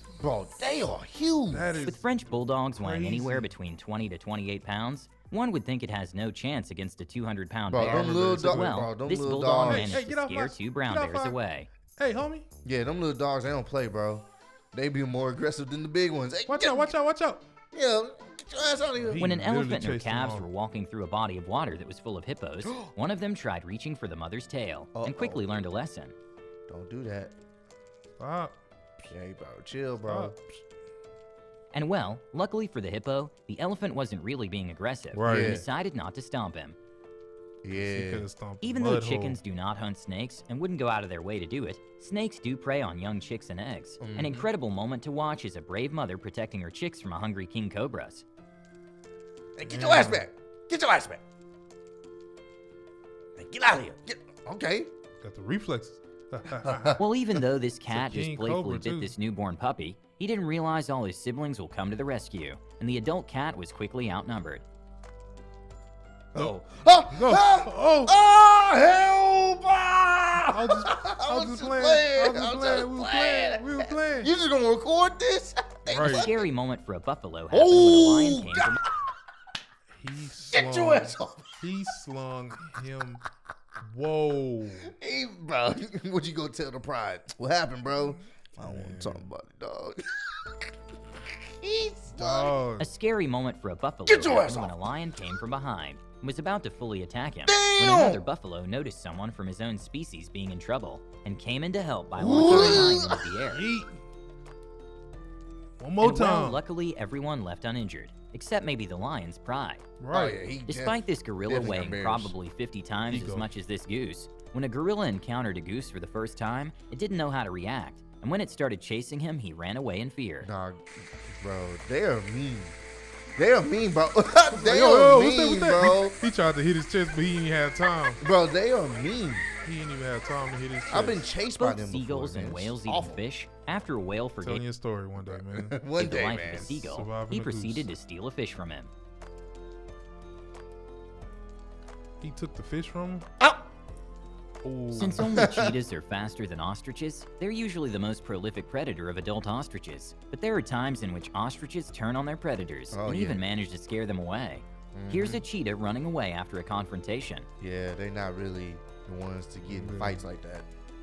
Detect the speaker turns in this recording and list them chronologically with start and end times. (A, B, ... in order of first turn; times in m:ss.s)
0:00.2-0:01.7 A
0:01.5-0:03.5 B
0:01.8-0:11.7 C
0:07.7-0:10.0 A
0:07.7-0:08.8 B
0:09.6-0:11.4 B
0:11.9-0:12.4 B
0:12.6-0:16.9 A
0:16.5-0:17.4 B
0:17.7-0:19.2 A
0:19.0-0:20.5 B
0:19.2-0:26.1 C
0:22.6-0:22.9 A
0:24.9-0:25.5 A
0:26.7-0:27.3 A
0:28.2-0:28.6 B
0:29.0-0:30.3 A
0:30.0-0:30.5 B
0:31.7-0:36.8 C
0:35.1-0:35.6 B
0:35.3-0:35.6 A
0:37.6-0:38.2 A
0:37.7-0:39.4 B
0:38.6-0:48.2 C
0:44.0-0:44.5 A
0:49.6-0:51.2 A
0:49.6-0:50.3 B
0:53.4-0:54.9 A
0:55.2-0:57.0 B
0:56.5-0:57.0 A
0:57.0-1:04.6 C
0:57.9-0:59.1 B
1:06.3-1:16.5 A
1:06.3-1:08.2 B
1:10.4-1:14.3 B
1:15.9-1:16.3 B
1:16.0-1:18.8 C
1:17.5-1:18.8 A
1:19.9-1:23.2 B
1:20.5-1:21.6 A
1:23.8-1:24.9 B
1:24.8-1:32.6 A
1:28.6-1:29.3 B
1:32.1-1:32.9 B
1:32.8-1:43.7 C
1:34.1-1:34.8 A
1:37.4-1:38.2 A
1:42.1-1:43.2 A
1:42.4-1:44.0 B
1:45.8-1:46.6 B
1:46.0-1:49.8 C
1:50.0-1:50.4 B
1:50.1-1:52.3 A
1:50.7-2:00.5 C
1:53.1-1:53.5 B
2:00.4-2:02.7 A
2:03.4-2:06.2 A
2:04.5-2:08.2 B
2:08.2-2:09.5 A
2:09.6-2:11.2 B
2:10.9-2:13.2 A
2:11.6-2:14.6 C
2:14.4-2:15.8 B
2:15.2-2:16.7 A
2:16.0-2:18.9 C
2:16.7-2:17.9 B
2:22.2-2:23.2 B
2:24.6-2:25.4 B
2:25.0-2:37.5 C
2:25.0-2:25.8 A
2:32.9-2:33.4 A
2:34.9-2:35.4 A
2:37.6-2:40.7 A
2:39.7-2:40.2 B